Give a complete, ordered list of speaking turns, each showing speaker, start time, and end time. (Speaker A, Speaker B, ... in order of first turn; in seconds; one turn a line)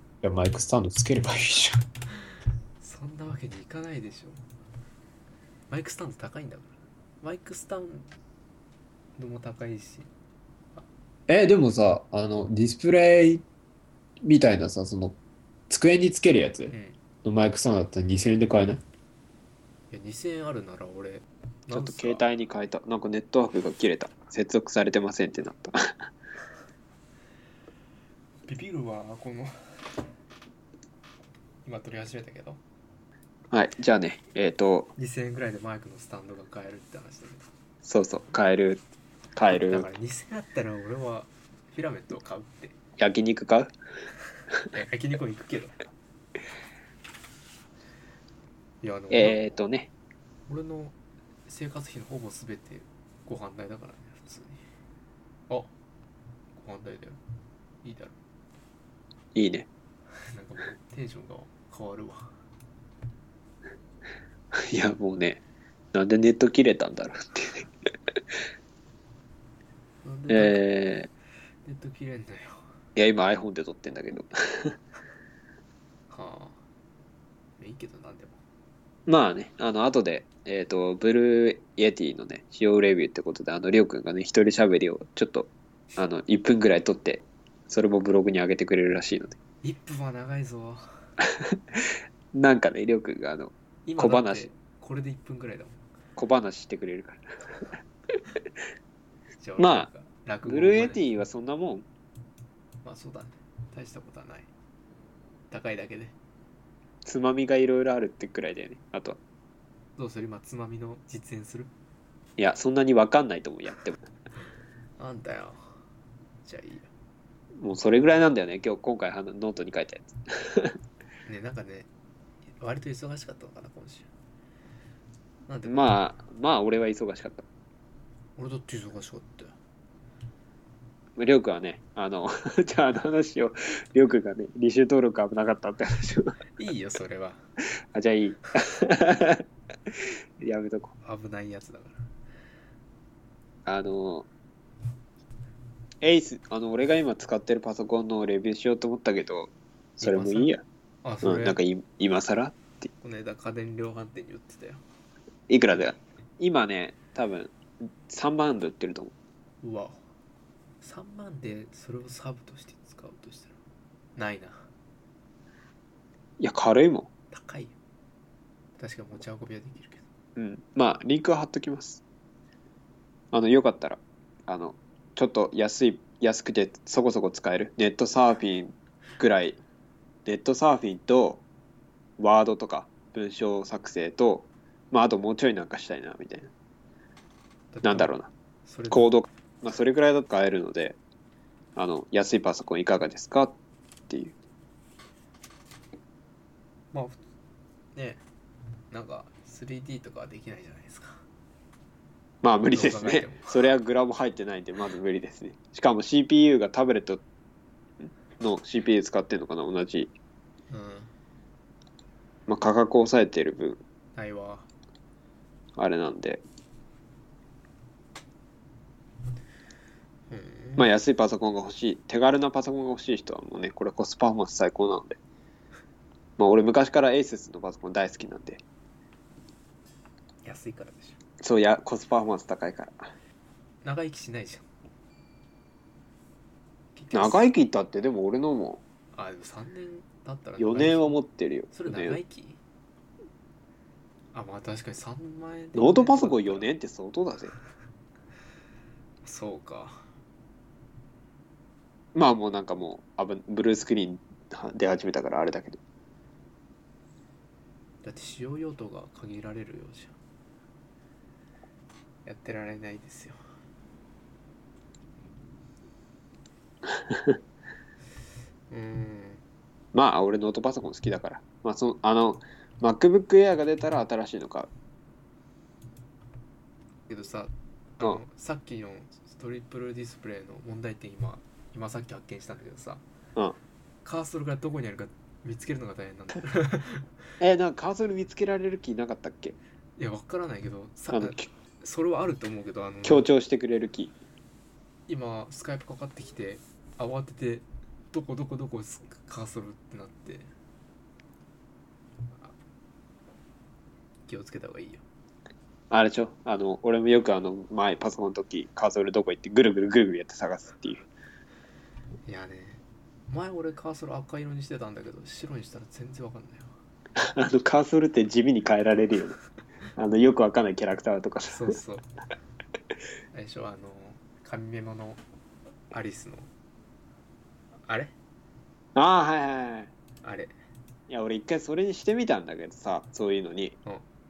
Speaker A: 0.2-1.8
Speaker B: 2.8-4.4
Speaker B: 5.7-8.1
Speaker B: 9.2-10.1
Speaker A: 11.3-13.4
Speaker A: 14.2-15.2
Speaker A: 15.7-18.8
Speaker B: 16.7-17.0
Speaker B: 19.9-22.3
Speaker A: 21.7-25.7
Speaker B: 28.4-29.5
Speaker B: 31.6-32.6
Speaker A: 33.5-34.9
Speaker B: 35.0-37.4
Speaker A: 37.8-38.8
Speaker A: 39.4-39.9
Speaker B: 39.5-42.7
Speaker A: 43.0-43.7
Speaker B: 44.7-45.8
Speaker B: 48.8-49.4
Speaker A: 49.1-49.9
Speaker B: 50.5-51.0
Speaker B: 51.5-54.6
Speaker B: 56.5-57.2
Speaker B: 57.8-58.2
Speaker A: 59.3-59.7
Speaker B: 60.3-62.3
Speaker A: 64.7-65.4
Speaker A: 65.9-67.7
Speaker B: 70.0-70.6
Speaker A: 70.3-71.1
Speaker B: 71.6-72.6
Speaker A: 73.0-74.8
Speaker B: 76.1-76.6
Speaker B: 77.6-78.4
Speaker A: 79.1-89.4
Speaker B: 89.6-90.8
Speaker A: 91.4-91.8
Speaker A: 92.3-94.5
Speaker B: 93.8-95.8
Speaker A: 96.2-97.6
Speaker B: 99.4-101.0
Speaker A: 99.6-99.9
Speaker A: 100.5-101.9
Speaker B: 102.8-104.5
Speaker B: 105.5-106.1
Speaker A: 107.0-109.2
Speaker B: 110.0-111.7
Speaker A: 112.4-114.0
Speaker B: 115.0-115.6
Speaker B: 116.4-116.9
Speaker A: 117.6-120.7
Speaker B: 121.2-121.9
Speaker B: 122.6-124.1
Speaker B: 125.5-126.0
Speaker A: 125.7-127.5
Speaker B: 128.4-129.5
Speaker A: 131.2-136.3
Speaker B: 136.6-137.4
Speaker A: 137.9-139.4
Speaker A: 140.4-140.9
Speaker B: 141.0-142.0
Speaker A: 143.6-144.3
Speaker A: 146.0-150.6
Speaker B: 150.0-150.5
Speaker B: 151.0-151.6
Speaker A: 151.2-152.9
Speaker B: 153.0-154.8
Speaker A: 155.5-159.1
Speaker B: 159.6-160.0
Speaker B: 160.8-163.6
Speaker B: 164.2-164.7
Speaker A: 166.4-167.1
Speaker B: 167.3-167.7
Speaker B: 168.8-170.0
Speaker A: 170.3-172.0
Speaker A: 173.3-179.6
Speaker A: 180.2-181.4
Speaker A: 182.2-186.5
Speaker B: 187.7-188.1
Speaker A: 187.8-188.3
Speaker B: 188.7-189.1
Speaker A: 188.9-191.0
Speaker A: 191.8-193.6
Speaker A: 194.1-194.3
Speaker B: 196.9-197.2
Speaker B: 197.9-198.2
Speaker B: 198.9-201.2
Speaker A: 202.4-207.2
Speaker B: 202.7-203.7
Speaker A: 208.4-210.1
Speaker B: 210.7-211.1
Speaker A: 212.5-213.8
Speaker B: 214.1-214.7
Speaker A: 215.8-216.4
Speaker B: 220.3-220.9
Speaker A: 220.8-225.2
Speaker A: 226.4-228.6
Speaker B: 230.4-231.2
Speaker A: 231.4-233.1
Speaker B: 233.8-234.6
Speaker B: 236.9-237.5
Speaker A: 237.1-238.8
Speaker B: 239.1-241.2
Speaker A: 240.6-242.2
Speaker B: 241.7-242.6
Speaker B: 244.3-246.7
Speaker A: 245.7-247.5
Speaker B: 249.2-250.1
Speaker A: 252.1-255.8
Speaker B: 258.0-260.1
Speaker B: 262.2-263.4
Speaker A: 267.1-267.3
Speaker B: 268.7-269.4
Speaker A: 269.9-274.7
Speaker B: 277.1-283.0
Speaker B: 284.0-287.1
Speaker A: 287.4-289.6
Speaker B: 290.0-293.2
Speaker A: 291.1-291.5
Speaker A: 293.0-294.1
Speaker B: 295.1-300.5
Speaker B: 304.3-305.0
Speaker A: 305.9-311.1
Speaker B: 312.3-316.7
Speaker A: 317.2-319.4
Speaker A: 320.0-321.8
Speaker B: 321.5-322.1
Speaker B: 323.3-325.2
Speaker B: 325.9-326.5
Speaker B: 327.9-328.1
Speaker A: 328.9-329.9
Speaker B: 330.2-330.5
Speaker A: 331.1-333.8